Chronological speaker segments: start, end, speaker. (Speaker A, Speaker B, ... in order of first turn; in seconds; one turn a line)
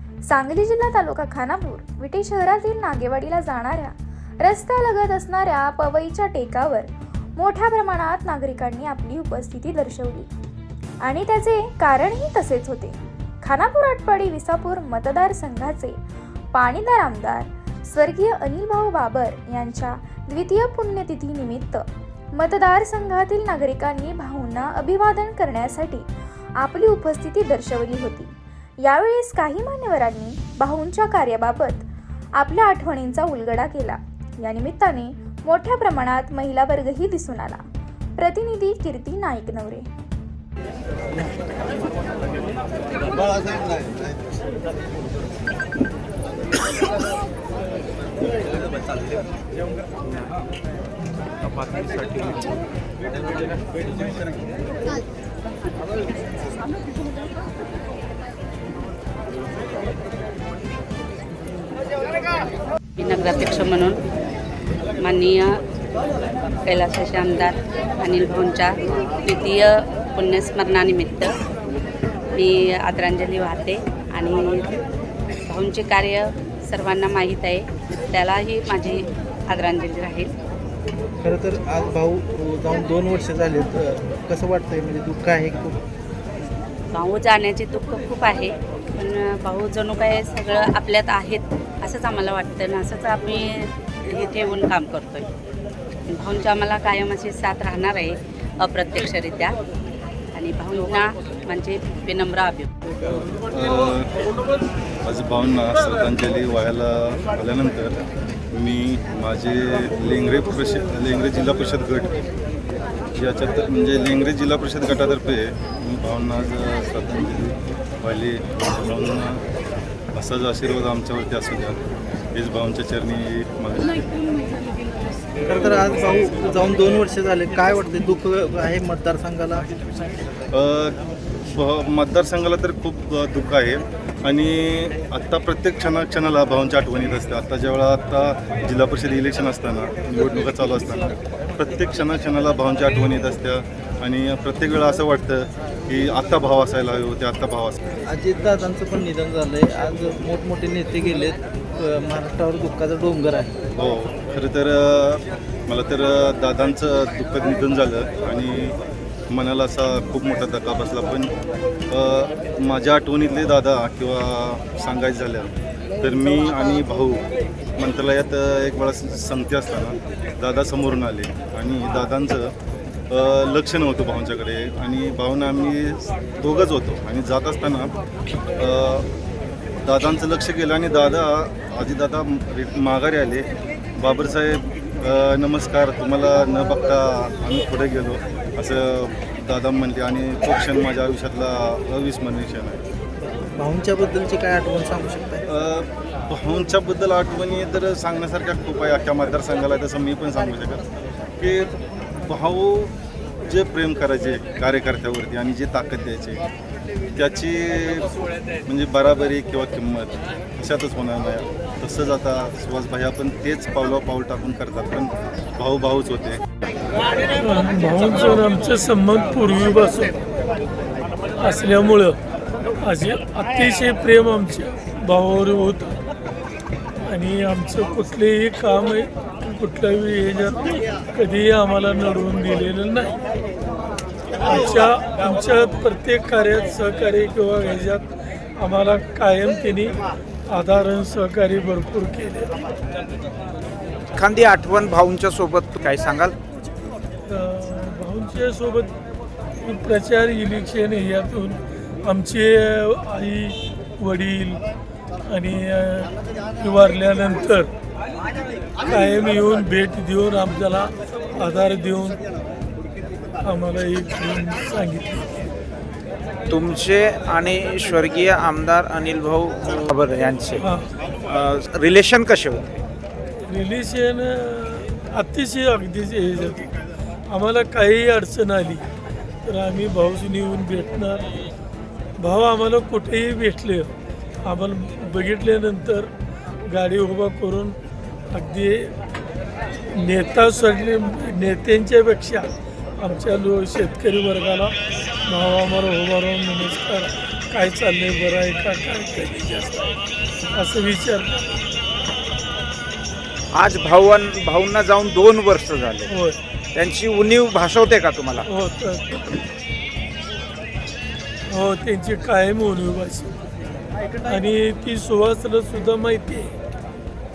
Speaker A: 0.3-10.3
Speaker A: 11.0-16.0
Speaker A: 16.5-21.8
Speaker A: 22.3-37.6
Speaker A: 38.2-39.9
Speaker B: 63.0-64.0
Speaker B: 65.0-65.6
Speaker B: 66.7-71.3
Speaker B: 72.3-74.7
Speaker B: 75.5-80.3
Speaker C: 81.2-85.8
Speaker B: 86.9-95.3
Speaker B: 96.1-99.5
Speaker B: 100.3-102.7
Speaker D: 103.5-104.1
Speaker D: 105.0-108.0
Speaker D: 108.5-112.2
Speaker D: 113.1-119.4
Speaker D: 120.1-121.8
Speaker D: 122.3-124.0
Speaker C: 125.5-129.7
Speaker D: 130.5-131.0
Speaker D: 131.5-147.8
Speaker C: 148.1-153.6
Speaker D: 153.7-158.8
Speaker D: 159.3-161.3
Speaker D: 161.9-167.2
Speaker D: 167.8-172.5
Speaker D: 173.1-177.9
Speaker D: 178.6-179.1
Speaker D: 179.8-192.8
Speaker C: 193.6-195.4
Speaker D: 195.5-200.8
Speaker D: 201.4-201.7
Speaker D: 202.2-202.9
Speaker D: 203.5-206.4
Speaker D: 207.2-208.1
Speaker D: 208.7-216.4
Speaker E: 217.4-220.1
Speaker E: 221.4-222.2
Speaker E: 222.8-225.9
Speaker E: 227.1-233.1
Speaker E: 234.4-238.1
Speaker E: 238.6-239.9
Speaker E: 240.5-242.5
Speaker F: 244.1-246.4
Speaker E: 247.3-248.9
Speaker E: 249.6-254.6
Speaker E: 255.3-257.7
Speaker E: 258.9-262.2
Speaker E: 263.4-265.3
Speaker F: 266.5-270.6
Speaker E: 270.6-270.9
Speaker F: 271.3-272.7
Speaker E: 273.5-276.7
Speaker E: 277.3-278.8
Speaker E: 279.5-281.3
Speaker E: 282.2-283.9
Speaker E: 284.4-286.1
Speaker E: 286.7-287.7
Speaker E: 288.3-288.9
Speaker E: 290.0-292.5
Speaker E: 293.0-294.7
Speaker E: 295.3-300.0
Speaker E: 300.5-301.5
Speaker F: 303.5-306.1
Speaker E: 306.1-306.4
Speaker F: 306.7-308.4
Speaker E: 308.5-309.2
Speaker E: 311.5-313.3
Speaker E: 314.2-316.5